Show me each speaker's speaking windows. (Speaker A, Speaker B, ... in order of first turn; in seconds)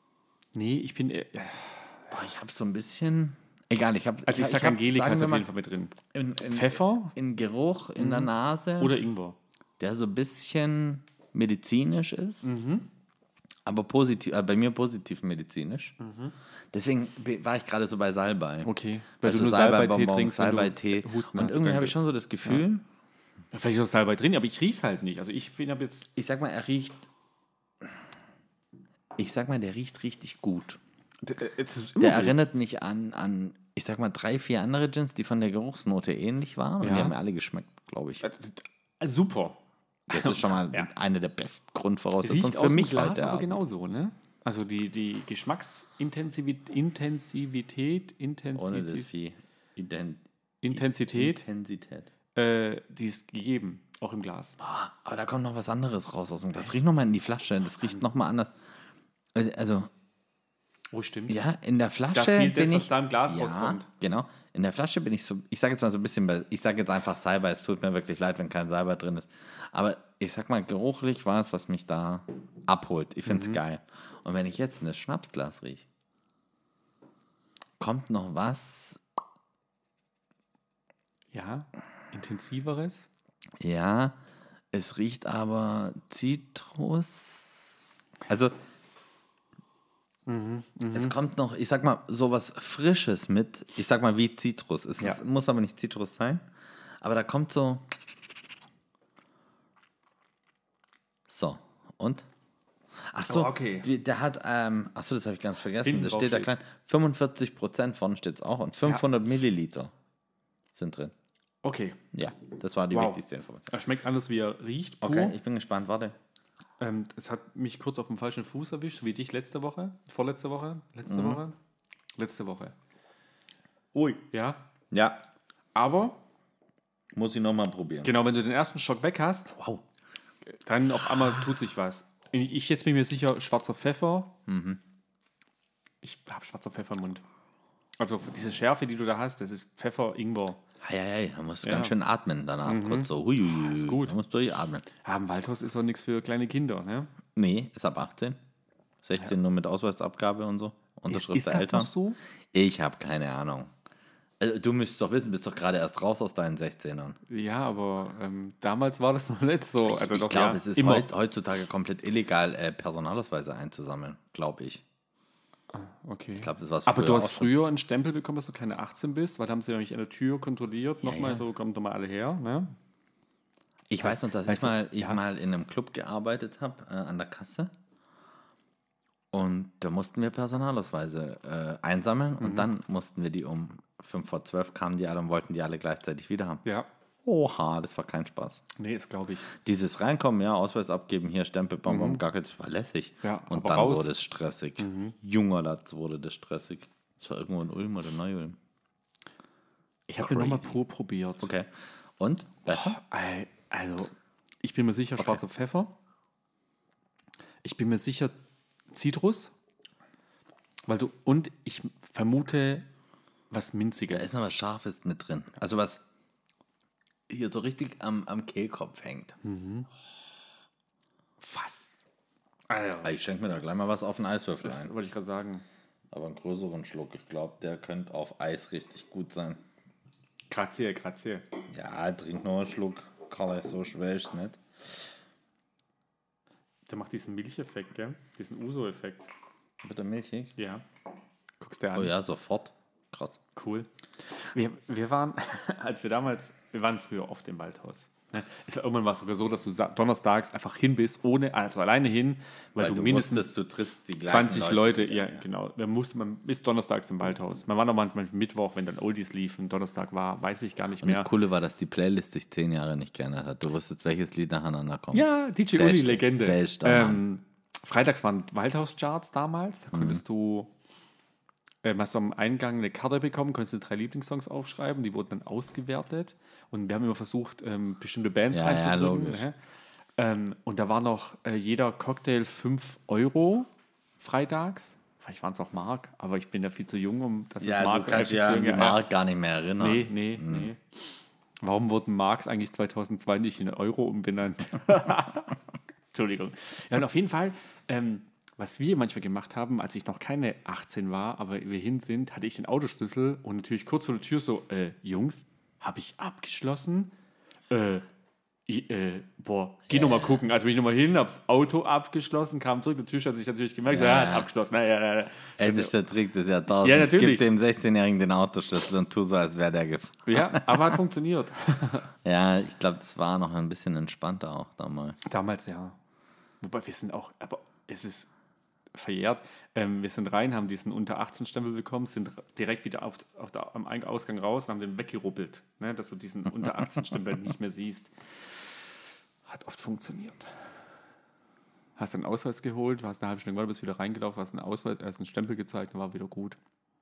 Speaker A: 0.5-2.1, 4.3-7.2, 8.0-9.4, 12.4-12.9, 16.0-16.4, 18.6-22.6, 23.5-26.1, 31.2-32.4, 36.8-37.1, 38.2-40.9, 42.2-49.1, 50.6-51.4, 52.4-54.6, 60.9-61.4, 62.1-63.9, 73.3-73.6, 81.3-83.1, 90.3-91.2, 103.3-103.9, 105.8-106.5, 111.6-112.0, 112.9-115.4, 116.8-121.6, 122.2-122.8, 124.3-124.6, 125.8-126.2, 128.0-129.6, 130.5-134.3, 136.0-137.2, 138.0-140.6, 141.6-141.9, 142.7-144.2, 145.0-147.1, 151.1-152.2, 157.3-161.1, 165.7-172.7, 174.0-175.2, 182.4-182.7, 188.8-189.5, 191.9-192.2, 193.2-194.1, 194.8-195.2, 200.1-201.5, 202.7-205.9, 207.6-208.3, 208.9-209.5, 210.9-212.9, 213.5-214.3, 219.4-219.9, 221.4-221.9, 222.7-223.2, 224.6-225.6, 230.5-231.5, 236.9-239.3, 240.6-240.8, 241.6-242.1, 243.6-253.5, 254.3-261.3, 265.1-270.7, 271.8-279.6, 280.2-289.0, 289.8-290.8, 291.6-295.6, 296.1-307.1, 307.7-308.1, 308.7-315.9, 316.8-317.5, 320.3-322.1, 325.2-326.0, 326.6-328.3, 328.9-338.1, 339.5-340.5, 342.0-346.6
Speaker B: 2.1-5.5, 6.1-9.0, 9.8-12.5, 13.7-16.0, 16.7-18.7, 19.2-22.9, 26.2-27.1, 29.2-30.8, 32.0-38.2, 40.1-43.6, 48.5-52.1, 54.6-58.5, 59.3-59.9, 61.3-75.8, 77.8-79.0, 83.6-84.2, 84.7-88.5, 90.9-96.5, 97.0-97.9, 101.3-102.3, 103.1-109.9, 110.7-111.1, 112.1-113.7, 115.0-116.2, 121.1-121.4, 123.9-124.2, 124.9-125.2, 127.1-128.1, 129.6-129.8, 134.5-134.8, 140.8-144.8, 147.3-148.4, 149.0-151.9, 152.5-153.7, 154.4-157.2, 159.9-164.8, 166.4-167.5, 171.0-171.5, 173.9-177.7, 179.3-186.6, 187.2-188.6, 189.5-198.6, 200.2-200.8, 201.4-203.0, 214.1-216.0, 217.3-219.4, 223.0-224.9, 226.1-229.6, 231.7-235.0, 239.8-240.5, 241.9-243.4, 252.8-255.4, 261.0-267.2, 269.9-270.2, 278.5-279.4, 287.6-290.7, 309.9-310.4, 313.9-314.5, 315.6-320.9, 322.2-325.2